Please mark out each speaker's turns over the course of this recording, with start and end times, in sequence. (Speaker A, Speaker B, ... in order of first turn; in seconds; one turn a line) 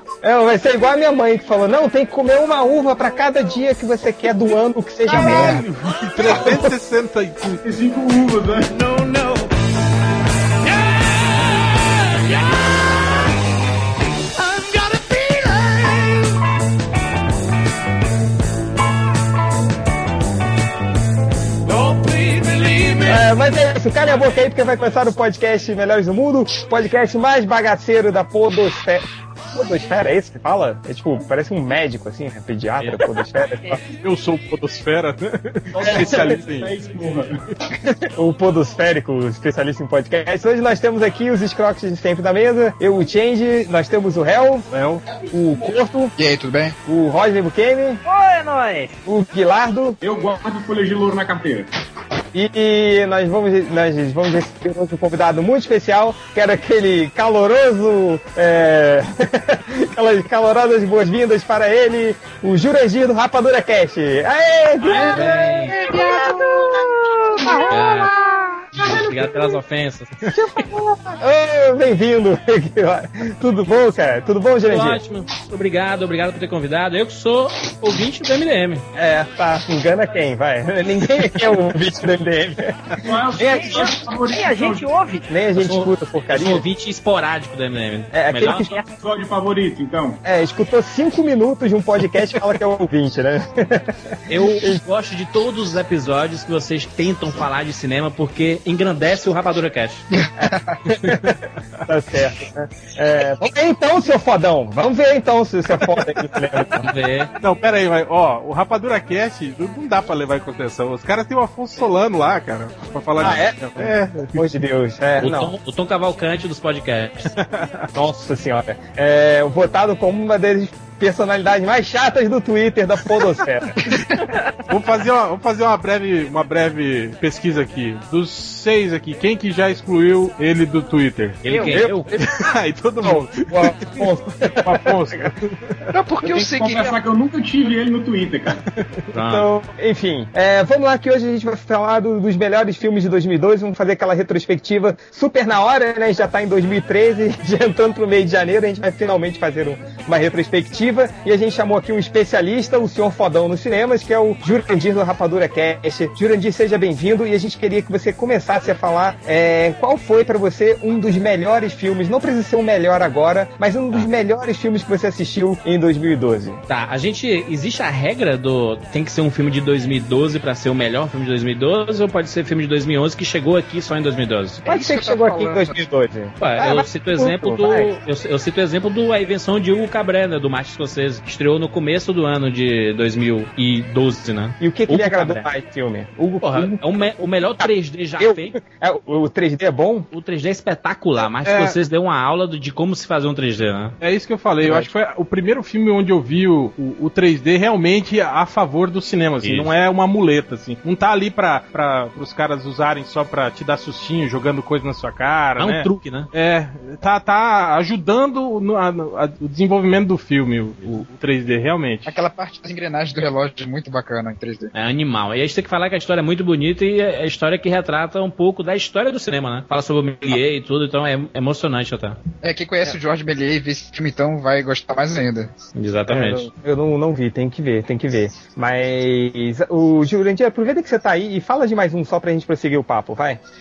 Speaker A: 0.2-5.6
Speaker B: 5.0-7.6
Speaker C: 5.1-5.6
Speaker D: 7.6-8.9
Speaker A: 23.0-33.8
Speaker B: 33.9-36.7
Speaker D: 35.7-37.4
Speaker A: 35.8-36.4
Speaker A: 37.8-44.7
Speaker B: 44.7-45.0
Speaker A: 45.3-46.1
Speaker C: 46.2-46.7
Speaker A: 46.8-48.0
Speaker E: 48.0-48.9
Speaker A: 49.0-50.0
Speaker D: 50.0-51.7
Speaker A: 52.3-69.0
Speaker D: 64.8-66.8
Speaker F: 65.1-65.8
Speaker F: 67.7-68.1
Speaker F: 68.8-70.3
Speaker D: 68.8-69.0
Speaker A: 70.3-75.0
Speaker F: 74.6-78.8
Speaker A: 78.9-83.9
Speaker D: 83.0-84.9
Speaker E: 83.4-85.3
Speaker A: 85.3-86.7
Speaker F: 85.6-88.7
Speaker A: 88.1-88.7
Speaker E: 88.4-88.9
Speaker D: 88.8-90.2
Speaker A: 90.2-94.8
Speaker F: 94.3-100.0
Speaker C: 100.2-100.8
Speaker A: 100.4-106.9
Speaker F: 106.8-107.3
Speaker B: 107.4-114.4
Speaker F: 113.2-113.4
Speaker A: 113.2-115.5
Speaker F: 115.2-117.3
Speaker B: 117.4-117.9
Speaker A: 117.9-123.8
Speaker E: 124.2-124.5
Speaker B: 124.7-131.4
Speaker F: 131.4-132.1
Speaker E: 131.5-131.8
Speaker A: 131.7-132.1
Speaker B: 132.1-134.1
Speaker A: 133.0-135.3
Speaker B: 134.6-135.7
Speaker C: 135.9-137.0
Speaker D: 136.2-138.6
Speaker F: 139.1-139.5
Speaker A: 139.3-166.6
Speaker F: 166.7-174.7
Speaker A: 174.6-177.9
Speaker C: 174.7-175.8
Speaker F: 176.4-185.4
Speaker A: 184.6-190.1
Speaker F: 186.4-188.6
Speaker F: 190.1-193.9
Speaker B: 191.4-191.8
Speaker B: 194.0-212.1
Speaker A: 194.6-194.9
Speaker F: 199.4-199.7
Speaker F: 205.6-206.3
Speaker C: 212.1-214.7
Speaker F: 214.7-222.2
Speaker C: 222.4-225.5
Speaker F: 225.7-226.5
Speaker A: 226.1-233.4